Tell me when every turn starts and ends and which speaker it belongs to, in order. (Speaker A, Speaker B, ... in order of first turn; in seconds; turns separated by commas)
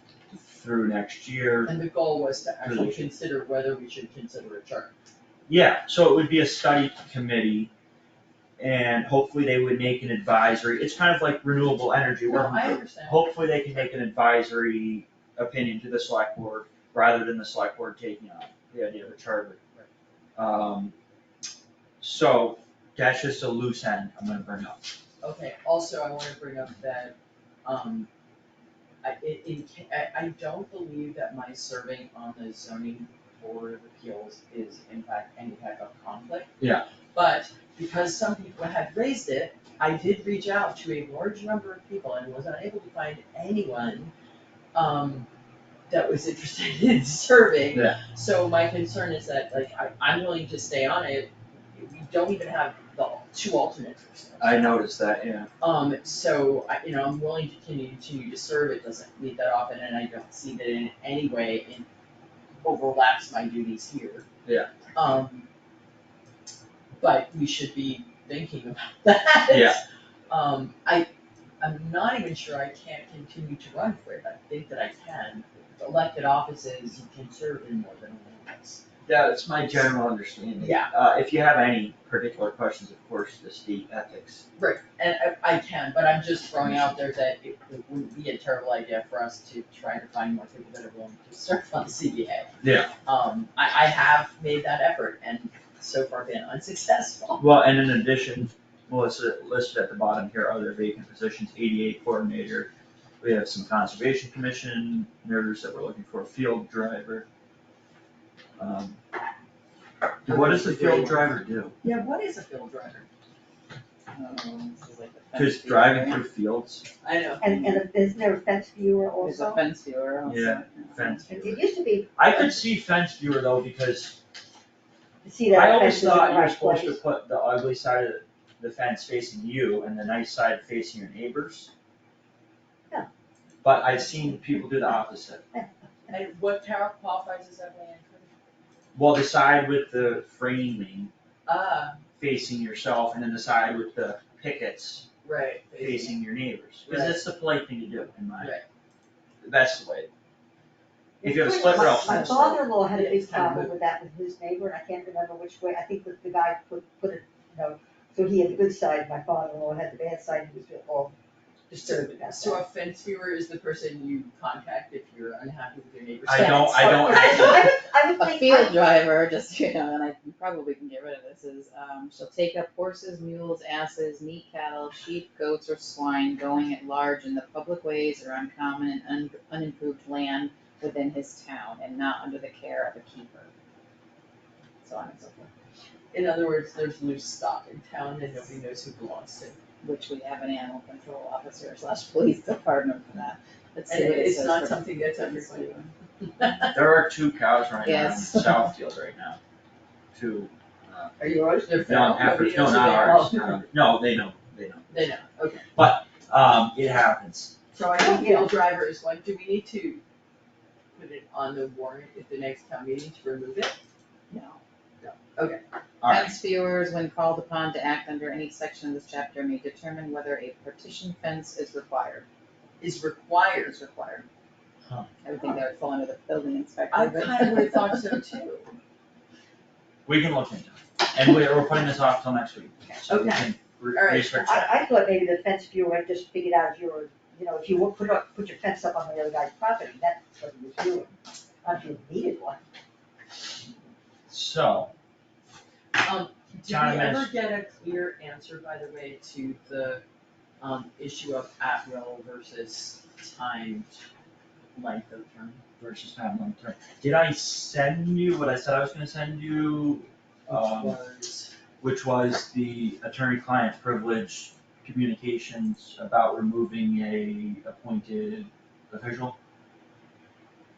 Speaker A: 0.3-1.8, Speaker B: 1.6-4.9, Speaker A: 2.6-3.1, Speaker A: 5.5-7.7, Speaker A: 8.6-19.6, Speaker B: 12.2-13.8, Speaker A: 20.4-20.9, Speaker A: 22.0-24.8, Speaker B: 25.2-28.1, Speaker B: 29.0-36.6, Speaker A: 36.6-36.9, Speaker B: 37.1-44.1, Speaker B: 44.7-45.3, Speaker B: 45.9-54.8, Speaker A: 47.7-48.0, Speaker A: 54.4-55.5, Speaker B: 55.6-61.9, Speaker B: 62.6-64.3, Speaker A: 64.5-64.7, Speaker B: 64.9-65.5, Speaker B: 67.0-71.1, Speaker A: 69.5-69.8, Speaker B: 71.6-78.8, Speaker A: 79.1-84.4, Speaker B: 80.6-80.9, Speaker B: 84.6-92.5, Speaker A: 92.6-92.9, Speaker B: 93.0-97.4, Speaker A: 97.4-102.7, Speaker A: 103.2-107.3, Speaker A: 108.6-109.0, Speaker A: 110.2-111.8, Speaker B: 110.2-113.1, Speaker C: 114.1-116.2, Speaker A: 115.3-116.9, Speaker B: 117.0-117.5, Speaker D: 117.4-119.6, Speaker C: 117.4-117.8, Speaker C: 119.2-121.2, Speaker A: 120.3-124.2, Speaker D: 121.3-122.6, Speaker D: 125.2-127.0, Speaker A: 125.5-131.7, Speaker A: 133.6-135.4, Speaker B: 136.1-138.3, Speaker A: 138.9-141.1, Speaker B: 141.5-142.0, Speaker A: 142.2-145.1, Speaker B: 145.2-146.2, Speaker A: 145.8-148.6, Speaker B: 146.8-147.2, Speaker B: 148.4-148.7, Speaker A: 149.4-150.1, Speaker D: 151.2-161.1, Speaker A: 151.2-152.6, Speaker B: 151.7-153.8, Speaker D: 161.7-162.6, Speaker B: 162.1-167.8, Speaker A: 166.3-167.7, Speaker D: 166.6-168.8, Speaker C: 168.2-183.5, Speaker C: 184.8-185.5, Speaker B: 186.1-189.6, Speaker C: 189.8-195.9, Speaker B: 193.9-196.8, Speaker A: 196.7-199.4, Speaker C: 197.8-198.7, Speaker A: 200.1-201.2, Speaker D: 201.2-201.8, Speaker B: 201.6-203.6, Speaker A: 201.8-204.9, Speaker B: 204.9-205.7, Speaker A: 205.8-207.5, Speaker B: 207.7-210.0, Speaker D: 207.9-208.6, Speaker B: 210.9-213.8, Speaker C: 214.3-214.6, Speaker B: 215.0-215.6, Speaker A: 216.0-216.3, Speaker C: 216.1-222.3, Speaker B: 222.8-224.2, Speaker C: 223.8-224.2, Speaker C: 225.2-228.1, Speaker B: 226.9-228.7, Speaker A: 230.1-234.8, Speaker D: 233.1-233.5, Speaker B: 233.9-234.4, Speaker D: 234.3-242.6, Speaker A: 244.3-244.9, Speaker B: 246.0-250.0, Speaker A: 246.7-247.3, Speaker B: 250.6-254.0, Speaker B: 254.7-255.6, Speaker A: 255.8-261.0, Speaker B: 260.5-261.5, Speaker A: 261.8-269.4